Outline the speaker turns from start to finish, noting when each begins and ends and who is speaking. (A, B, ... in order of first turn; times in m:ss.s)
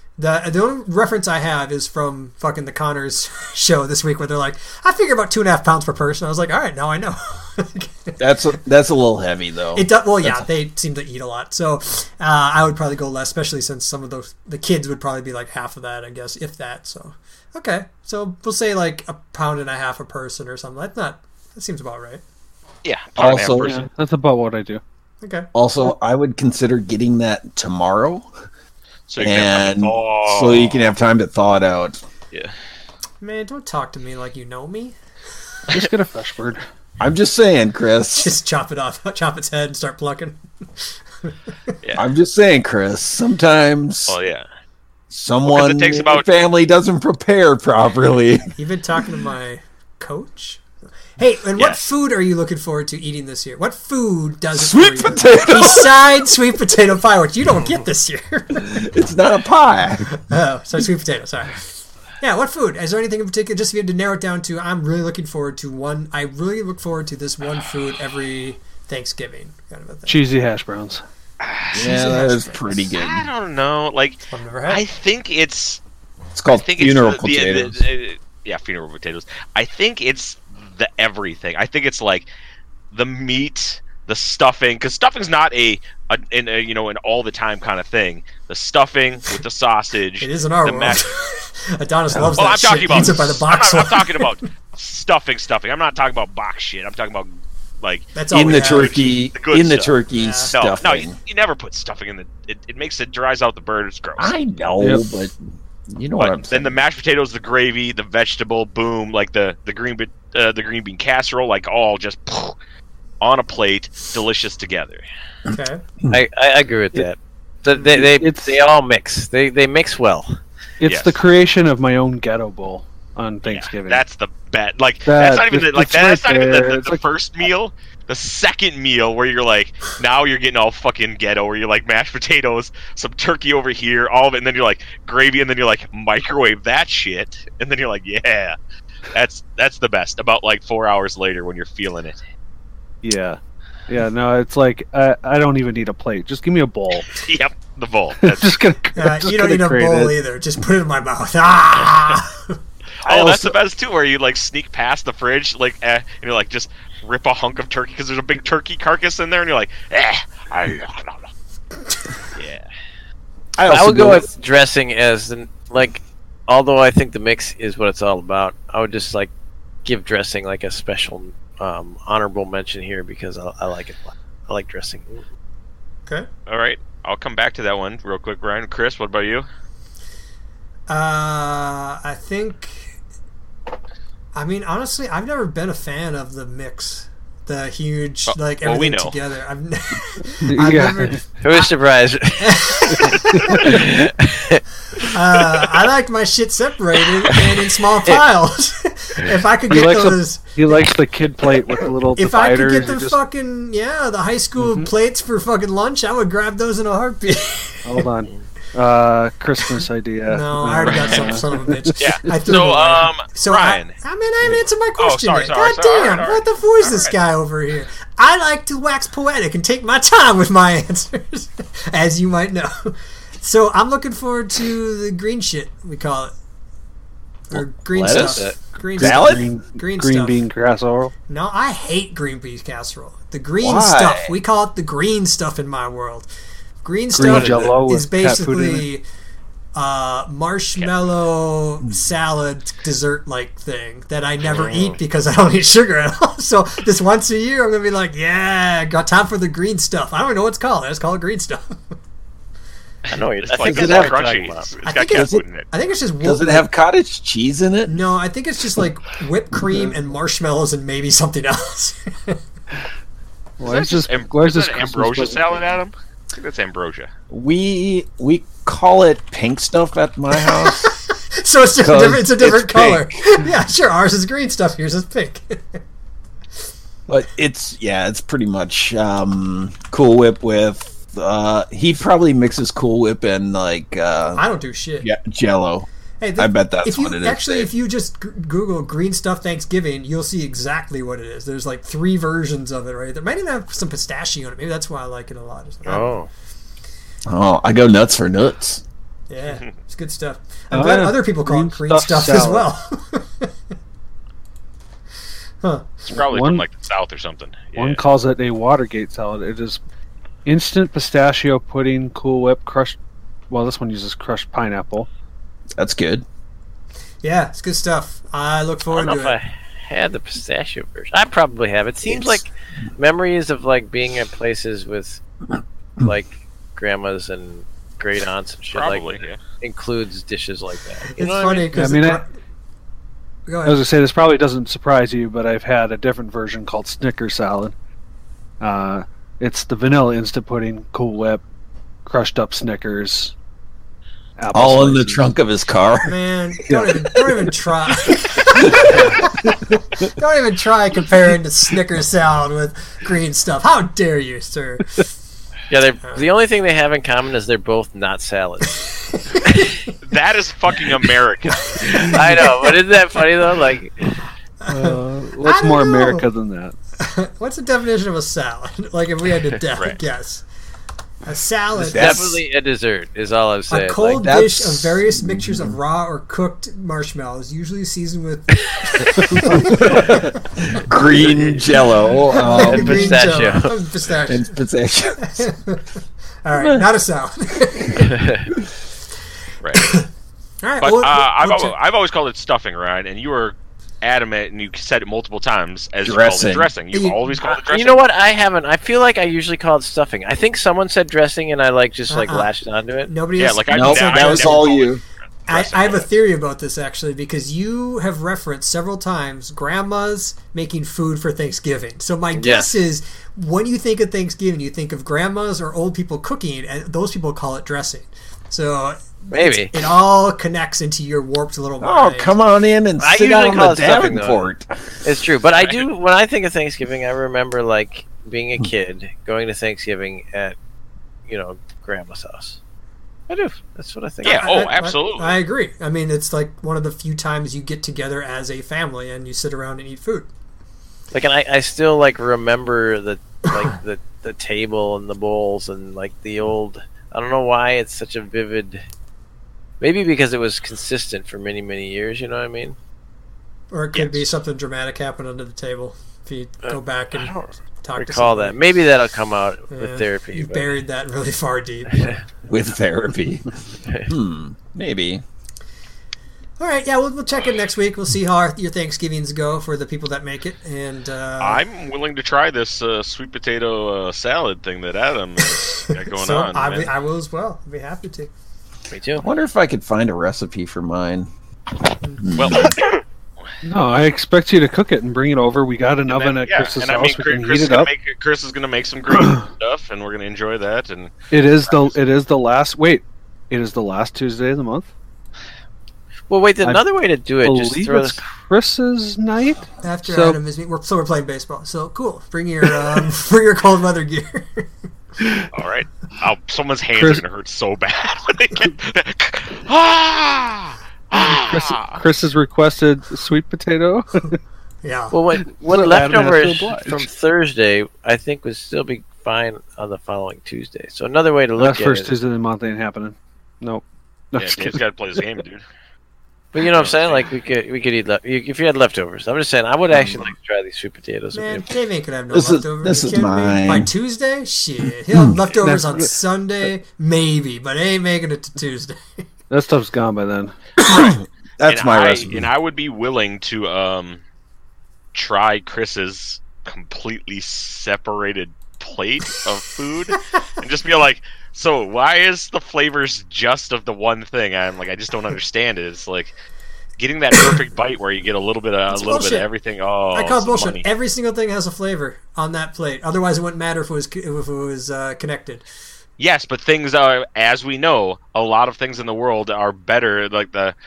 0:00.2-0:08.2 A
0:08.2-0:10.5 B
0:09.8-0:22.2 A
0:22.8-0:23.8 C
0:23.2-0:23.8 B
0:23.6-0:24.8 D
0:25.2-0:25.5 A
0:25.5-0:28.3 B
0:29.1-0:30.9 C
0:29.2-0:32.0 B
0:33.2-0:35.0 A
0:35.7-0:36.6 D
0:37.0-0:38.4 B
0:38.2-0:40.4 A
0:42.0-0:44.2 B
0:44.1-0:44.5 C
0:45.1-0:48.6 B
0:45.5-0:46.3 C
0:48.6-0:50.6 A
0:51.2-0:58.9 A
0:51.6-0:51.8 C
0:54.5-0:56.1 B
0:58.6-1:00.2 B
1:00.2-1:01.7 A
1:02.2-1:10.2 A
1:10.1-1:11.0 D
1:11.4-1:12.1 C
1:11.7-1:13.3 B
1:11.8-1:12.7 A
1:12.9-1:15.8 C
1:14.3-1:14.8 A
1:16.3-1:17.8 B
1:16.5-1:22.3 C
1:22.9-1:31.0 C
1:30.2-1:34.4 A
1:32.1-1:33.0 B
1:32.4-1:40.0 C
1:38.2-1:39.1 A
1:38.3-1:41.2 B
1:40.1-1:40.5 A
1:40.5-1:44.3 C
1:44.2-1:46.8 B
1:46.2-1:52.6 C
1:53.2-1:55.0 C
1:55.5-1:55.8 A
1:55.5-1:56.2 B
1:56.1-2:00.4 E
1:57.9-1:58.6 D
2:00.8-2:04.0 D
2:00.9-2:01.2 C
2:03.4-2:18.6 C
2:05.1-2:07.0 D
2:19.1-2:22.2 C
2:23.0-2:27.1 D
2:27.2-2:28.6 C
2:28.2-2:30.2 D
2:29.0-2:32.6 A
2:33.0-2:41.3 C
2:33.0-2:33.6 B
2:42.3-2:42.7 C
2:43.6-2:44.3 B
2:43.6-2:49.3 E
2:49.8-2:55.2 E
2:56.5-2:59.5 C
3:00.9-3:02.9 A
3:04.3-3:11.7 A
3:08.3-3:09.2 C
3:10.4-3:11.2 D
3:11.4-3:14.6 E
3:12.4-3:13.8 A
3:13.0-3:13.8 D
3:15.0-3:20.6 A
3:19.7-3:23.2 D
3:21.7-3:28.0 A
3:24.6-3:24.9 D
3:27.8-3:32.7 D
3:30.3-3:46.3 A
3:30.9-3:31.3 C
3:32.0-3:34.0 C
3:35.0-3:37.2 C
3:47.5-3:50.4 A
3:47.5-3:49.5 B
3:48.0-3:48.6 E
3:49.0-3:51.1 D
3:51.3-3:56.3 A
3:53.6-3:54.3 B
3:56.8-3:59.0 A
3:57.1-3:58.9 D
3:57.2-3:57.7 E
3:59.8-4:11.8 A
4:04.5-4:05.0 E
4:13.1-4:15.7 C
4:13.1-4:14.7 E
4:13.6-4:14.2 B
4:14.8-4:16.7 A
4:15.1-4:15.4 B
4:16.2-4:18.0 B
4:17.9-4:22.4 A
4:23.6-4:25.4 D
4:23.6-4:27.1 C
4:27.3-4:30.9 B
4:30.4-4:35.8 A
4:31.8-4:33.4 B
4:37.1-4:44.4 B
4:44.3-4:45.1 A
4:45.0-4:47.7 B
4:46.2-4:56.2 A
4:55.9-4:56.3 E
4:57.3-4:58.8 B
4:59.3-5:03.5 A
5:00.7-5:02.7 D
5:05.6-5:06.0 A
5:06.1-5:08.0 C
5:06.2-5:06.6 D
5:07.8-5:09.8 D
5:10.4-5:13.0 D
5:13.5-5:15.1 D
5:15.8-5:16.2 B
5:17.2-5:19.4 A
5:18.9-5:25.2 E
5:26.0-5:31.7 E
5:28.7-5:29.4 C
5:31.2-5:32.3 A
5:31.7-5:32.2 D
5:33.5-5:33.8 A
5:33.6-5:37.7 D
5:38.6-5:41.4 D
5:42.0-5:43.3 D
5:44.4-5:45.3 D
5:44.5-5:46.1 B
5:46.0-5:55.0 A
5:46.7-5:47.5 D
5:48.6-5:49.2 B
5:55.7-5:58.8 E
5:59.1-5:59.9 A
6:00.0-6:02.2 C
6:01.8-6:02.2 A
6:02.0-6:04.1 E
6:04.6-6:06.2 A
6:04.7-6:06.8 D
6:07.0-6:10.4 A
6:11.2-6:12.2 A
6:11.7-6:12.4 B
6:11.9-6:14.2 E
6:13.7-6:20.8 A
6:14.2-6:15.8 B
6:19.5-6:23.4 B
6:22.3-6:24.6 A
6:22.5-6:23.8 E
6:24.3-6:25.5 B
6:25.2-6:25.9 A
6:26.4-6:28.2 A
6:26.5-6:26.9 B
6:28.0-6:28.5 E
6:29.6-6:30.0 C
6:29.7-6:30.1 A
6:30.6-6:31.7 A
6:30.8-6:38.0 C
6:36.0-6:36.7 B
6:36.9-6:37.4 A
6:37.7-6:43.1 E
6:42.1-6:42.5 A
6:43.1-6:44.8 A
6:43.4-6:45.0 C
6:43.7-6:45.0 B
6:45.5-7:02.3 A
6:45.5-6:46.1 C
6:52.4-6:52.8 E
6:59.3-6:59.7 E
7:01.8-7:04.7 B
7:03.0-7:04.5 E
7:05.0-7:10.6 E
7:05.6-7:05.9 C
7:11.3-7:12.6 E
7:13.3-7:14.5 E
7:14.2-7:15.4 C
7:14.3-7:20.3 A
7:21.1-7:28.8 E
7:29.8-7:32.8 E
7:33.7-7:38.6 A
7:33.9-7:34.3 C
7:36.6-7:40.8 E
7:39.7-7:42.2 A
7:42.5-7:43.5 B
7:44.0-7:45.2 B
7:46.6-7:51.6 A
7:51.4-7:56.9 C
7:56.2-7:58.3 A
7:58.9-7:59.3 E
7:59.2-8:01.3 B
8:02.2-8:02.8 B
8:02.4-8:03.0 C
8:03.6-8:07.9 D
8:06.1-8:11.9 C
8:11.3-8:14.9 D
8:16.3-8:18.2 E
8:17.4-8:20.4 D
8:19.8-8:24.7 A
8:25.5-8:32.0 C
8:27.0-8:27.2 D
8:31.1-8:34.4 D
8:34.8-8:35.2 A
8:35.1-8:42.1 E
8:35.6-8:37.1 D
8:41.6-8:44.8 D
8:44.4-8:45.6 C
8:46.5-8:51.7 E
8:46.6-8:47.3 C
8:49.9-8:50.2 B
8:51.3-8:59.2 A
8:52.3-8:53.9 B
8:55.6-8:56.1 D
8:59.5-9:00.6 D
9:00.8-9:02.5 B
9:01.7-9:04.2 C
9:05.1-9:16.3 C
9:17.0-9:20.9 C
9:18.9-9:19.5 A
9:20.1-9:25.6 A
9:26.2-9:30.8 C